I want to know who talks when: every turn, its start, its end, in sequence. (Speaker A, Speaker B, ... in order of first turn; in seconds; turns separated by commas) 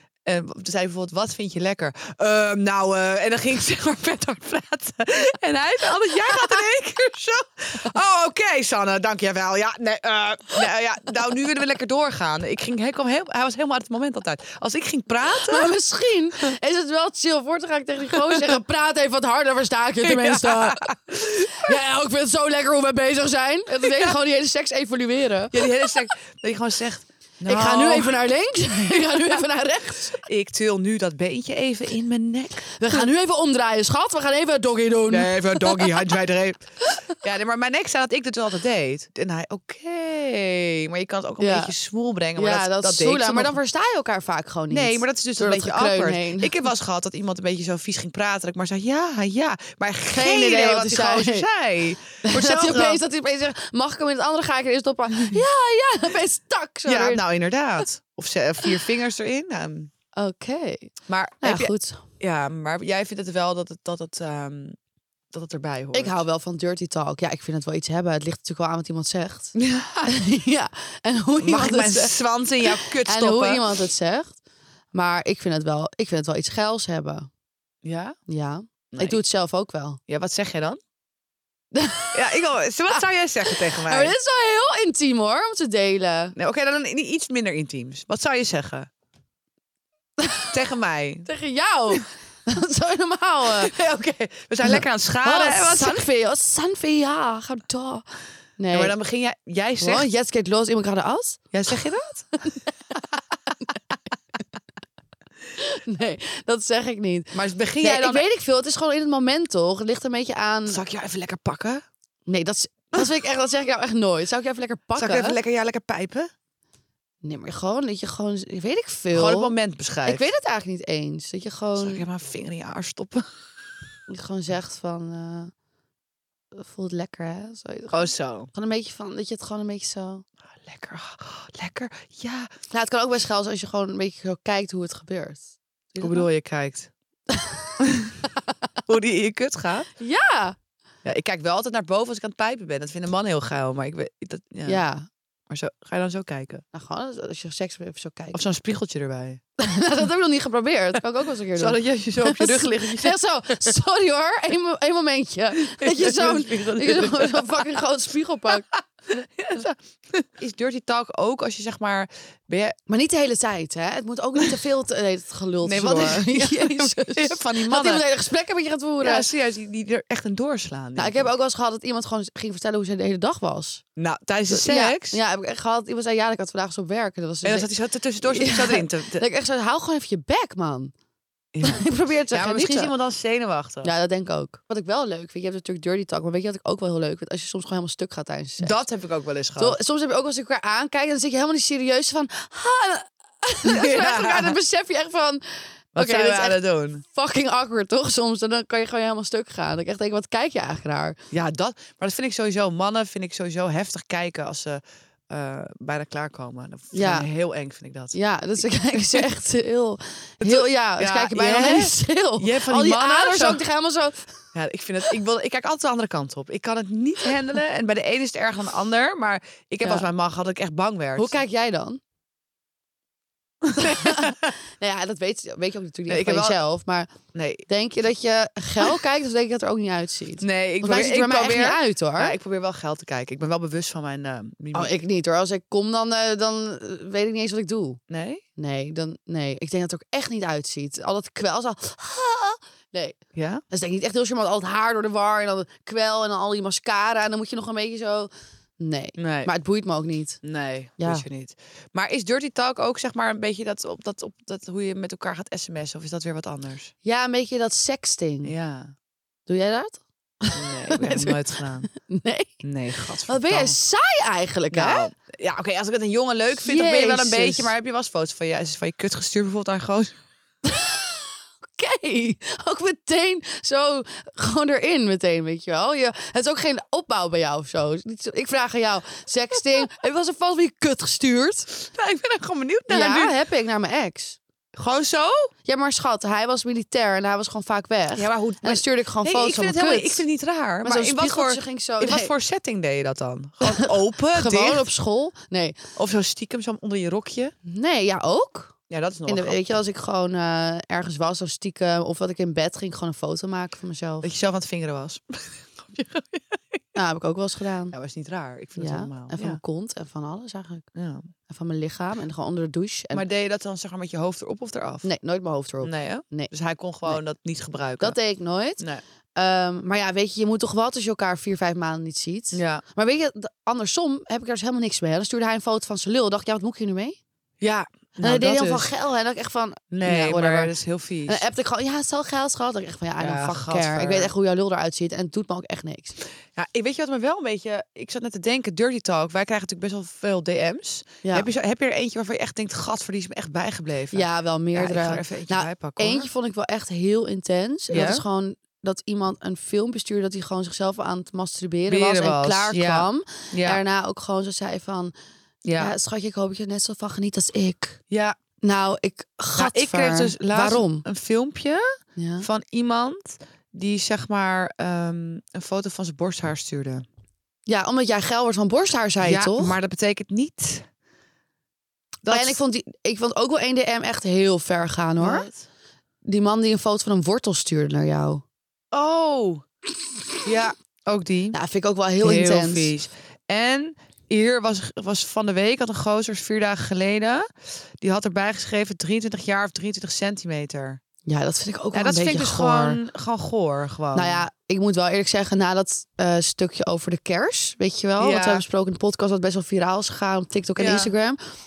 Speaker A: 0.3-15.7, Speaker B: 6.3-6.6, Speaker B: 15.3-26.0, Speaker A: 18.1-18.6, Speaker A: 20.0-21.8, Speaker A: 23.8-24.2, Speaker A: 25.5-28.2, Speaker B: 27.5-30.3, Speaker A: 28.9-29.4, Speaker A: 30.2-33.1, Speaker B: 32.8-36.1, Speaker A: 35.1-43.6, Speaker B: 41.4-41.7, Speaker B: 42.4-46.5, Speaker A: 44.7-53.0, Speaker B: 50.1-51.5, Speaker B: 52.2-57.2, Speaker A: 55.2-55.4, Speaker A: 56.9-59.9, Speaker B: 60.2-62.1, Speaker A: 61.1-64.8, Speaker A: 65.3-66.2, Speaker B: 65.9-72.2, Speaker A: 69.5-70.1, Speaker A: 71.4-73.7, Speaker B: 72.7-74.4, Speaker B: 74.9-77.3, Speaker A: 77.8-78.2, Speaker B: 78.3-80.0, Speaker A: 78.9-79.2, Speaker A: 80.1-80.8, Speaker B: 81.7-86.3, Speaker A: 82.1-84.2, Speaker A: 86.4-88.9, Speaker B: 90.2-90.5, Speaker A: 90.5-91.3, Speaker B: 91.3-93.7, Speaker A: 93.5-96.0, Speaker B: 94.7-98.0, Speaker B: 98.6-99.0, Speaker A: 98.7-100.1, Speaker B: 99.8-101.5, Speaker A: 101.5-102.5, Speaker B: 105.5-110.8, Speaker A: 107.3-108.3, Speaker A: 110.7-111.8, Speaker B: 112.3-115.4, Speaker A: 115.0-116.3, Speaker B: 117.2-122.0, Speaker A: 119.1-120.3, Speaker A: 121.8-123.3, Speaker B: 124.1-125.5, Speaker B: 126.5-130.2, Speaker A: 127.9-128.5, Speaker A: 130.6-132.5, Speaker B: 132.7-136.3, Speaker A: 136.0-136.9, Speaker B: 137.3-137.8, Speaker A: 137.8-138.2, Speaker A: 138.9-139.9, Speaker B: 140.0-140.6, Speaker A: 141.1-144.8, Speaker B: 144.7-145.1, Speaker A: 145.5-146.6, Speaker B: 146.7-148.4, Speaker A: 148.3-149.4, Speaker B: 149.6-158.7, Speaker A: 151.6-153.8, Speaker A: 155.6-157.7, Speaker A: 158.7-162.8, Speaker B: 162.9-169.3, Speaker A: 165.6-168.0, Speaker A: 169.0-171.3, Speaker B: 171.0-173.8, Speaker A: 174.0-175.2, Speaker B: 174.5-180.9, Speaker A: 177.4-179.2, Speaker A: 181.5-183.9, Speaker B: 181.6-182.9, Speaker B: 183.8-188.8, Speaker A: 188.6-189.8, Speaker B: 189.6-201.2, Speaker A: 193.7-194.6, Speaker A: 196.0-197.0, Speaker A: 201.3-208.2, Speaker B: 206.9-207.3, Speaker B: 208.1-214.4, Speaker A: 208.9-209.3, Speaker A: 210.4-213.6, Speaker A: 214.5-221.4, Speaker B: 221.2-222.0, Speaker A: 223.6-224.4, Speaker B: 223.8-227.1, Speaker A: 226.1-226.6, Speaker A: 227.3-227.7, Speaker B: 227.7-232.4, Speaker A: 230.4-234.9, Speaker B: 234.7-238.0, Speaker A: 238.1-238.4, Speaker B: 238.6-243.2, Speaker A: 243.4-243.6, Speaker B: 243.7-250.4, Speaker A: 249.2-249.5, Speaker A: 250.4-256.9, Speaker B: 251.0-251.3, Speaker B: 257.0-258.5, Speaker A: 258.4-258.9, Speaker B: 259.5-265.1, Speaker A: 260.5-261.9, Speaker A: 262.6-263.8, Speaker A: 264.7-270.1, Speaker B: 266.6-267.7, Speaker B: 270.6-281.7, Speaker A: 281.7-283.4, Speaker B: 282.9-284.4, Speaker A: 284.8-285.5, Speaker B: 285.6-290.2, Speaker A: 288.1-294.9, Speaker B: 290.8-292.3, Speaker B: 293.6-295.8, Speaker A: 296.0-297.5, Speaker B: 297.7-298.8, Speaker A: 298.9-299.7, Speaker B: 299.3-304.3, Speaker A: 304.2-306.8, Speaker B: 306.9-307.9, Speaker A: 307.9-309.6, Speaker B: 308.8-310.9, Speaker A: 310.9-311.3, Speaker B: 311.5-313.2, Speaker A: 313.1-315.1, Speaker B: 315.0-316.5, Speaker A: 315.8-318.2, Speaker B: 318.0-318.8, Speaker B: 319.4-327.2, Speaker A: 322.5-322.8, Speaker A: 327.6-328.9, Speaker B: 328.2-330.8, Speaker A: 329.9-331.4, Speaker B: 331.3-336.2, Speaker A: 333.2-334.3, Speaker A: 336.6-346.3, Speaker B: 341.2-341.5, Speaker B: 344.1-355.1, Speaker A: 347.9-348.2, Speaker A: 351.9-353.8, Speaker A: 355.6-355.9, Speaker B: 355.8-358.0, Speaker A: 358.1-358.4, Speaker B: 358.6-361.1, Speaker A: 359.6-361.9, Speaker B: 362.2-362.5, Speaker A: 362.4-367.1, Speaker B: 367.7-369.8, Speaker A: 369.2-370.9, Speaker A: 372.2-372.6, Speaker B: 372.3-375.5, Speaker A: 375.2-375.6, Speaker B: 376.2-378.4, Speaker A: 378.9-379.6, Speaker A: 380.4-381.6, Speaker B: 381.5-382.9, Speaker A: 382.2-387.5, Speaker A: 388.0-391.0, Speaker B: 391.2-393.0, Speaker A: 391.9-394.4, Speaker B: 394.1-401.4, Speaker A: 398.2-398.6, Speaker A: 400.8-401.1